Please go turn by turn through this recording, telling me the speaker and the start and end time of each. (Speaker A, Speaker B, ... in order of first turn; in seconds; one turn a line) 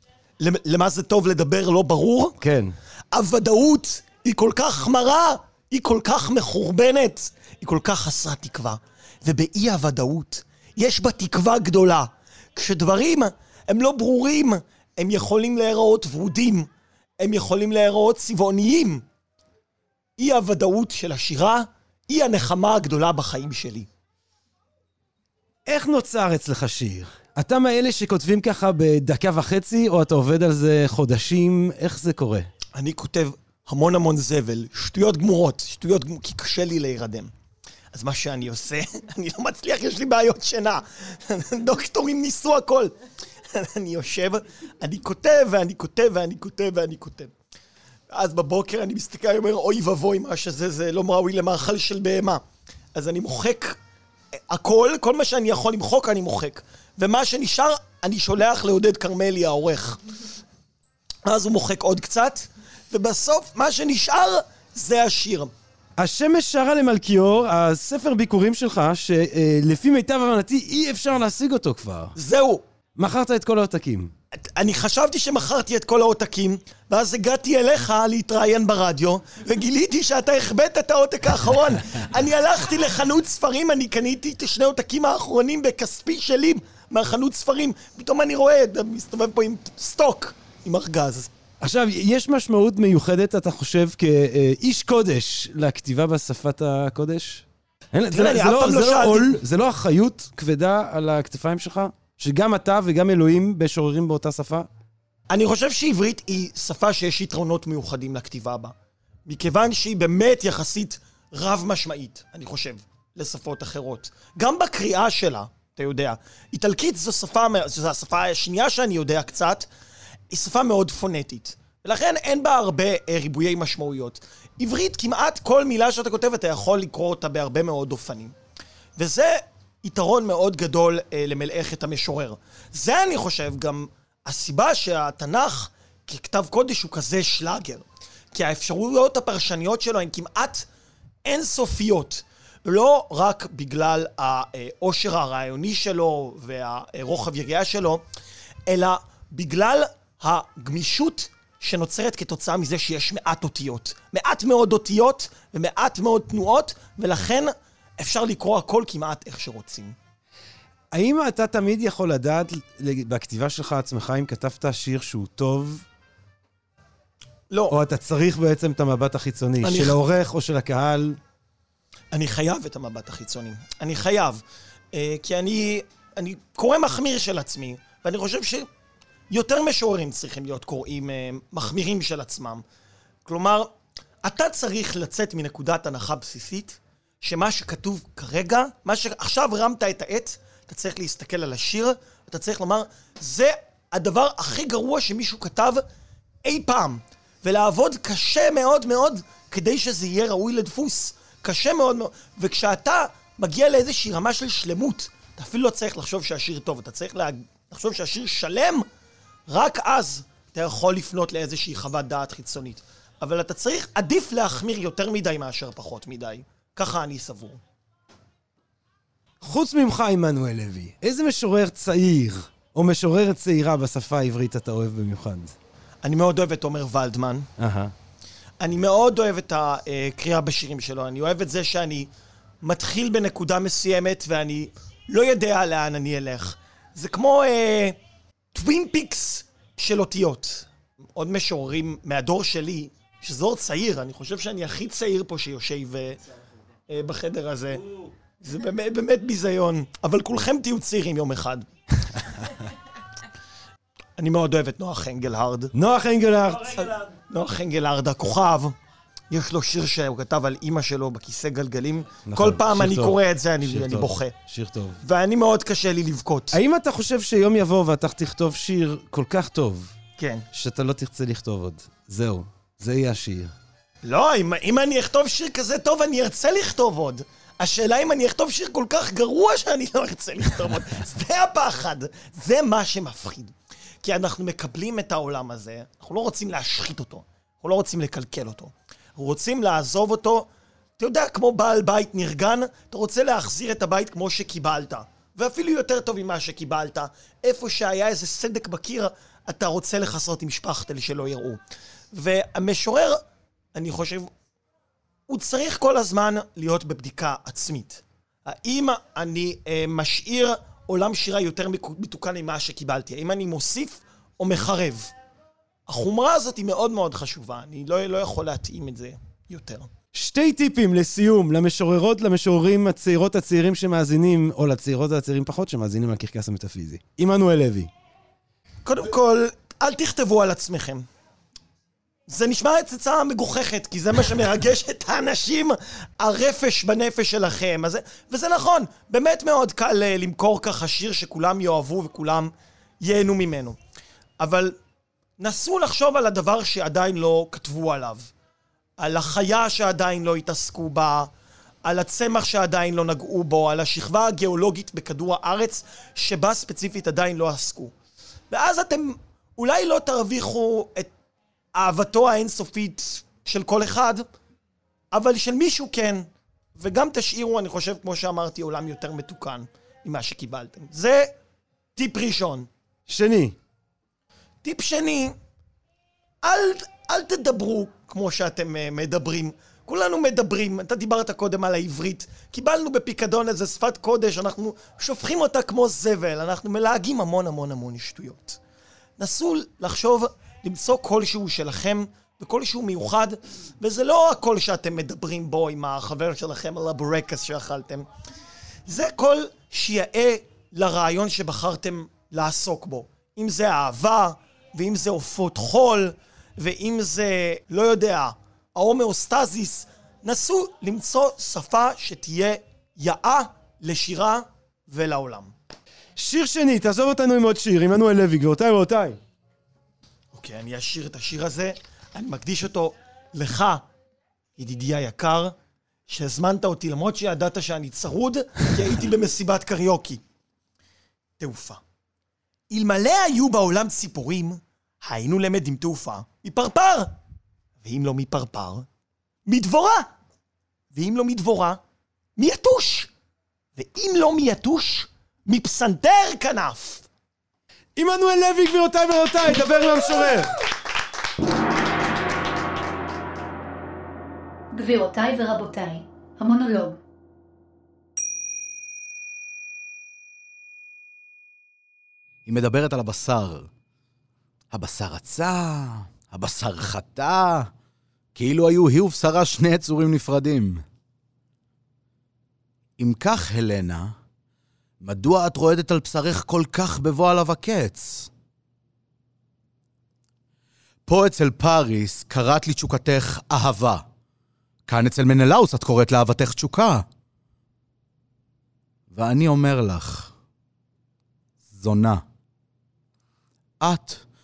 Speaker A: 0.4-2.4
Speaker B: 2.4-2.7
Speaker A: 3.1-19.0
Speaker A: 20.2-23.9
Speaker B: 25.6-32.5
Speaker A: 32.7-37.3
Speaker A: 37.9-42.9
Speaker A: 43.5-47.3
Speaker A: 48.1-52.4
Speaker A: 52.9-53.8
Speaker A: 54.5-60.0
Speaker A: 61.2-65.5
Speaker B: 66.0-72.1
Speaker A: 72.2-72.6
Speaker B: 73.0-74.1
Speaker A: 74.3-91.3
Speaker B: 91.6-104.7
Speaker A: 98.1-99.4
Speaker A: 105.3-108.7
Speaker A: 109.2-119.7
Speaker A: 120.3-128.3
Speaker A: 128.9-140.7
Speaker A: 141.2-148.0
Speaker A: 148.7-159.9
Speaker B: 160.9-165.8
Speaker A: 167.5-167.8
Speaker B: 167.7-171.2
Speaker A: 169.6-170.0
Speaker A: 172.1-178.7
Speaker A: 179.3-182.6
Speaker A: 183.2-183.7
Speaker A: 184.2-195.8
Speaker A: 196.4-208.8
Speaker A: 209.5-217.6
Speaker B: 219.4-225.5
Speaker A: 226.0-227.5
Speaker B: 227.6-227.9
Speaker A: 228.6-232.1
Speaker A: 232.6-238.0
Speaker A: 238.5-246.2
Speaker A: 246.9-251.6
Speaker A: 254.2-255.7
Speaker B: 255.7-256.9
Speaker A: 256.7-258.7
Speaker A: 259.3-264.3
Speaker B: 262.2-265.0
Speaker A: 265.0-266.6
Speaker B: 266.5-269.9
Speaker A: 270.2-270.4
Speaker B: 270.5-273.5
Speaker A: 274.0-290.5
Speaker A: 291.0-301.6
Speaker A: 302.1-303.2
Speaker A: 303.7-304.3
Speaker A: 305.3-315.1
Speaker A: 315.9-319.9
Speaker B: 320.1-327.9
Speaker A: 328.8-331.1
Speaker A: 332.3-343.8
Speaker A: 344.4-344.7
Speaker A: 345.4-348.3
Speaker A: 349.0-351.3
Speaker A: 351.8-357.9
Speaker A: 358.5-361.1
Speaker A: 361.7-364.2
Speaker A: 365.1-371.3
Speaker A: 371.9-372.7
Speaker B: 373.1-373.6
Speaker A: 374.6-375.3
Speaker A: 376.4-388.6
Speaker A: 389.2-398.1
Speaker A: 398.9-415.5
Speaker B: 416.2-419.2
Speaker A: 420.3-423.8
Speaker A: 424.6-425.5
Speaker A: 426.1-430.2
Speaker A: 431.4-431.8
Speaker A: 432.7-437.1
Speaker A: 437.8-438.9
Speaker A: 439.4-440.1
Speaker A: 440.9-441.8
Speaker A: 442.4-443.1
Speaker A: 443.8-447.1
Speaker B: 448.0-450.5
Speaker C: 454.7-457.0
Speaker D: 462.4-463.7
Speaker D: 464.7-467.7
Speaker D: 468.3-470.8
Speaker D: 473.0-474.1
Speaker D: 475.0-478.3
Speaker D: 481.1-484.0
Speaker D: 484.9-487.1
Speaker D: 489.1-490.3
Speaker D: 491.7-492.2
Speaker D: 493.8-494.2